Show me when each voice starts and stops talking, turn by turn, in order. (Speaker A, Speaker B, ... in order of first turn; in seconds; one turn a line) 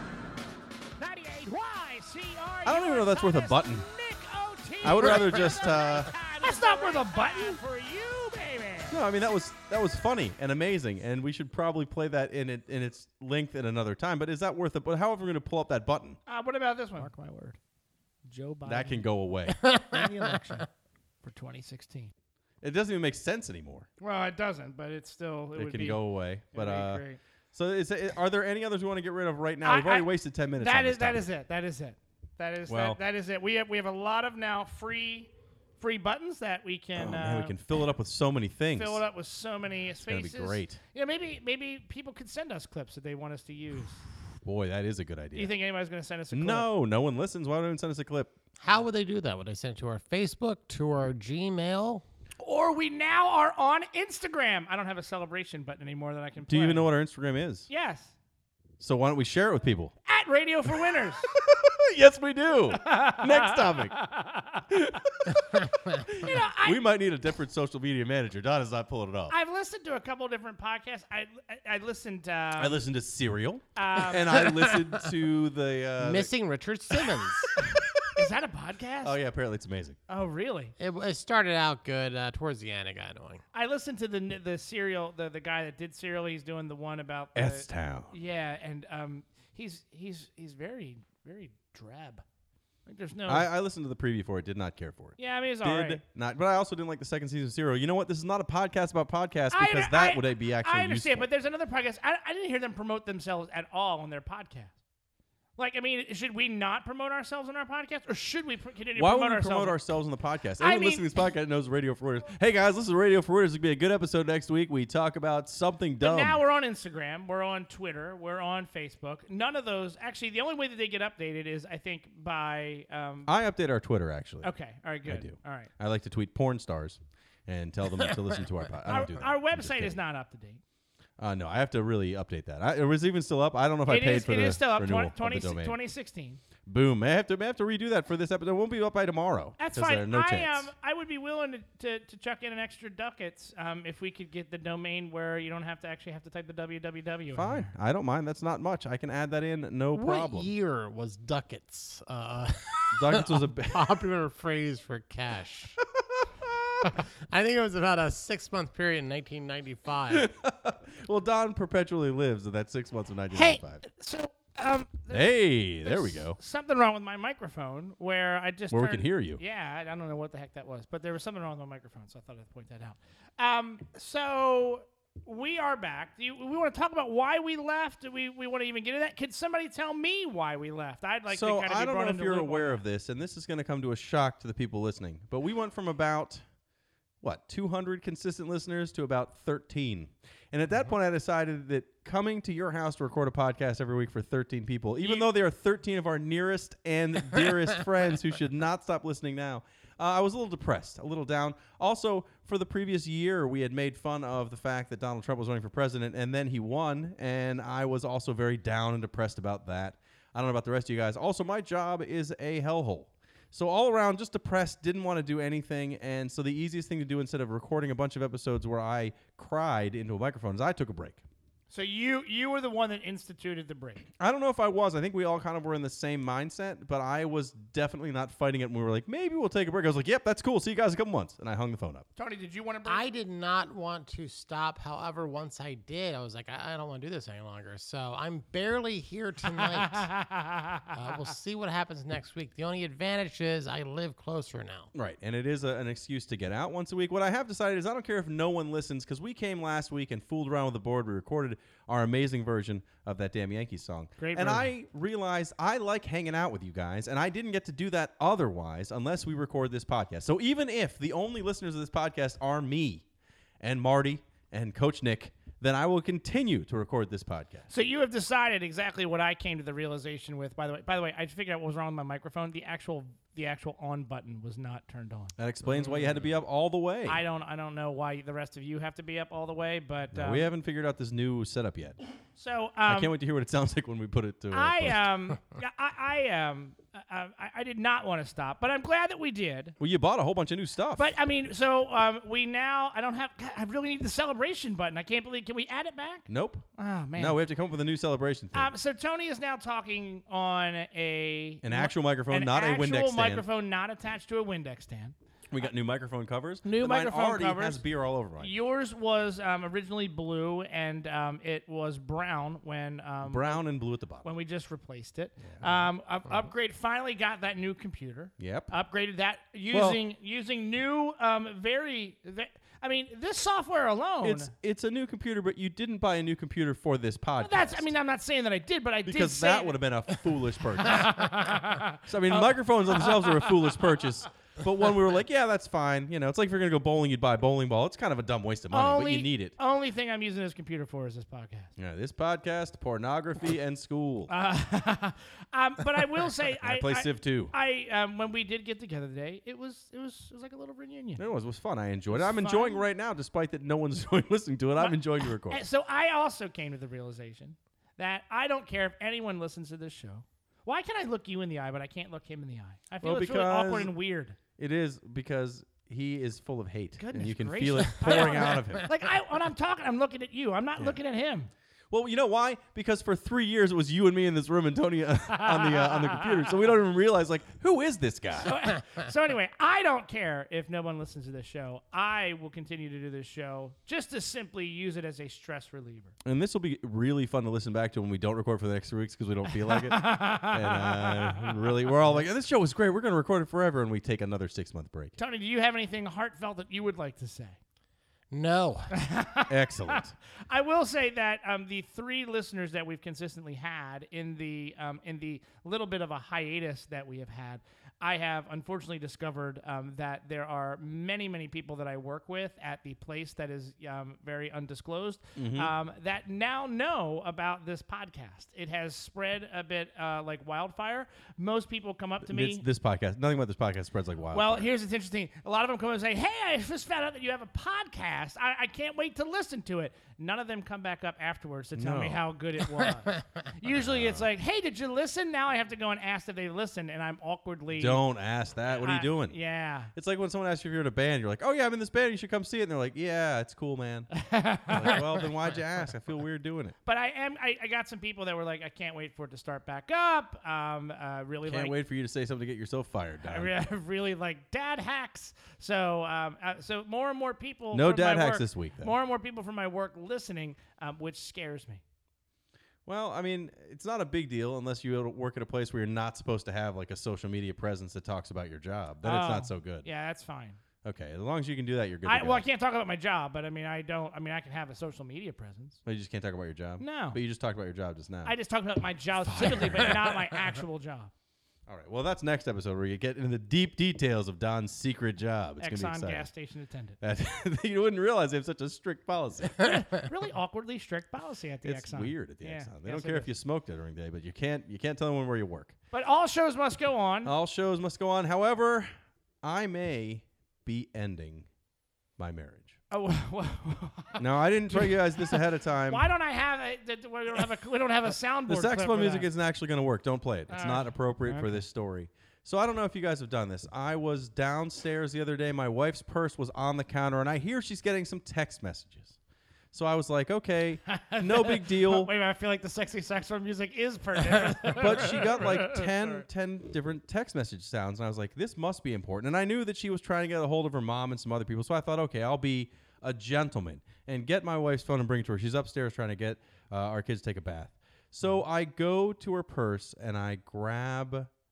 Speaker A: 1.0-9.0
Speaker B: 2.6-3.9
Speaker B: 4.8-6.1
Speaker C: 6.5-7.1
Speaker B: 8.9-16.2
Speaker A: 16.3-17.6
Speaker A: 18.2-20.7
Speaker B: 18.7-19.6
Speaker C: 19.6-20.1
Speaker A: 21.2-22.1
Speaker B: 22.6-23.9
Speaker A: 24.0-26.0
Speaker B: 25.6-27.0
Speaker A: 26.5-27.2
Speaker B: 27.5-31.3
Speaker A: 29.6-37.6
Speaker B: 32.7-33.0
Speaker B: 37.0-39.0
Speaker A: 38.7-44.0
Speaker B: 40.1-40.8
Speaker B: 44.4-45.5
Speaker A: 45.4-46.7
Speaker B: 46.3-48.3
Speaker C: 48.6-52.0
Speaker A: 52.4-56.9
Speaker B: 56.5-57.7
Speaker A: 57.7-58.1
Speaker B: 58.8-59.9
Speaker A: 60.1-61.3
Speaker B: 61.2-64.0
Speaker A: 62.7-64.8
Speaker B: 64.7-69.3
Speaker A: 66.0-66.8
Speaker A: 69.3-72.8
Speaker B: 72.6-76.3
Speaker A: 73.8-74.5
Speaker C: 74.4-74.9
Speaker C: 76.0-77.5
Speaker B: 77.7-78.3
Speaker A: 78.2-79.2
Speaker B: 79.0-80.0
Speaker A: 80.1-80.7
Speaker C: 80.8-83.4
Speaker A: 83.5-92.2
Speaker B: 87.3-88.1
Speaker A: 92.9-93.5
Speaker B: 93.3-101.3
Speaker A: 95.2-96.0
Speaker A: 99.5-104.7
Speaker A: 105.6-109.8
Speaker B: 109.0-116.4
Speaker A: 110.6-111.1
Speaker A: 116.0-123.3
Speaker B: 123.3-124.5
Speaker A: 124.4-125.7
Speaker B: 125.1-130.0
Speaker A: 128.8-130.6
Speaker B: 131.2-135.8
Speaker A: 133.9-136.4
Speaker B: 136.7-140.7
Speaker A: 139.6-147.7
Speaker B: 147.3-150.5
Speaker C: 149.9-155.8
Speaker B: 152.9-154.0
Speaker C: 156.8-160.3
Speaker B: 160.1-163.8
Speaker A: 163.3-182.8
Speaker B: 165.1-166.4
Speaker B: 168.7-169.4
Speaker B: 181.3-186.4
Speaker B: 187.2-221.2
Speaker A: 195.0-195.3
Speaker A: 221.7-224.1
Speaker B: 224.2-232.1
Speaker A: 232.2-233.1
Speaker C: 232.8-240.1
Speaker A: 239.6-240.9
Speaker C: 240.9-244.9
Speaker B: 244.9-263.1
Speaker A: 254.2-254.7
Speaker B: 263.6-267.7
Speaker A: 267.7-276.3
Speaker B: 275.4-277.2
Speaker A: 277.1-280.5
Speaker B: 280.1-282.0
Speaker A: 282.4-283.1
Speaker B: 282.9-285.1
Speaker A: 284.5-289.8
Speaker B: 289.8-291.1
Speaker A: 291.0-297.4
Speaker B: 296.3-298.7
Speaker A: 298.5-305.1
Speaker B: 301.6-303.4
Speaker B: 305.5-308.5
Speaker A: 306.6-307.8
Speaker A: 308.4-313.6
Speaker B: 313.2-314.3
Speaker A: 314.2-324.5
Speaker B: 315.5-315.7
Speaker B: 318.4-318.7
Speaker B: 319.7-320.0
Speaker B: 324.2-327.9
Speaker A: 327.4-329.8
Speaker B: 329.1-331.4
Speaker A: 330.8-333.8
Speaker B: 332.1-339.5
Speaker A: 338.7-341.7
Speaker B: 341.8-344.3
Speaker A: 344.3-351.2
Speaker B: 346.6-347.5
Speaker B: 351.2-355.6
Speaker A: 352.1-352.9
Speaker A: 354.8-364.4
Speaker B: 363.0-363.9
Speaker B: 364.6-368.9
Speaker A: 367.0-371.5
Speaker B: 371.9-378.6
Speaker A: 375.4-376.5
Speaker A: 378.4-386.1
Speaker B: 386.2-395.1
Speaker A: 389.6-391.7
Speaker A: 395.2-397.6
Speaker C: 398.3-398.9
Speaker A: 398.9-422.6
Speaker B: 399.5-400.1
Speaker B: 415.4-415.7
Speaker B: 422.2-424.7
Speaker A: 424.3-438.0
Speaker B: 431.8-432.2
Speaker B: 433.7-434.3
Speaker B: 437.7-439.4
Speaker A: 438.7-439.9
Speaker B: 439.9-444.1
Speaker A: 444.1-445.0
Speaker B: 444.7-446.8
Speaker A: 446.9-451.8
Speaker B: 451.5-453.5
Speaker A: 453.2-461.8
Speaker B: 457.7-458.9
Speaker B: 462.9-469.9
Speaker A: 469.0-470.6
Speaker B: 470.8-472.4
Speaker A: 472.1-475.8
Speaker B: 475.9-478.3
Speaker A: 476.8-477.2
Speaker A: 478.2-481.1
Speaker B: 479.2-480.2
Speaker B: 481.7-486.3
Speaker A: 485.6-487.0
Speaker B: 487.0-489.7
Speaker A: 489.6-493.3
Speaker B: 491.6-495.8
Speaker A: 495.9-497.3
Speaker B: 497.2-498.9
Speaker B: 499.4-501.5
Speaker B: 502.2-502.8
Speaker A: 502.9-509.3
Speaker B: 504.2-506.1
Speaker B: 508.5-519.2
Speaker A: 510.5-511.6
Speaker B: 519.7-522.1
Speaker A: 520.9-526.2
Speaker B: 524.7-541.3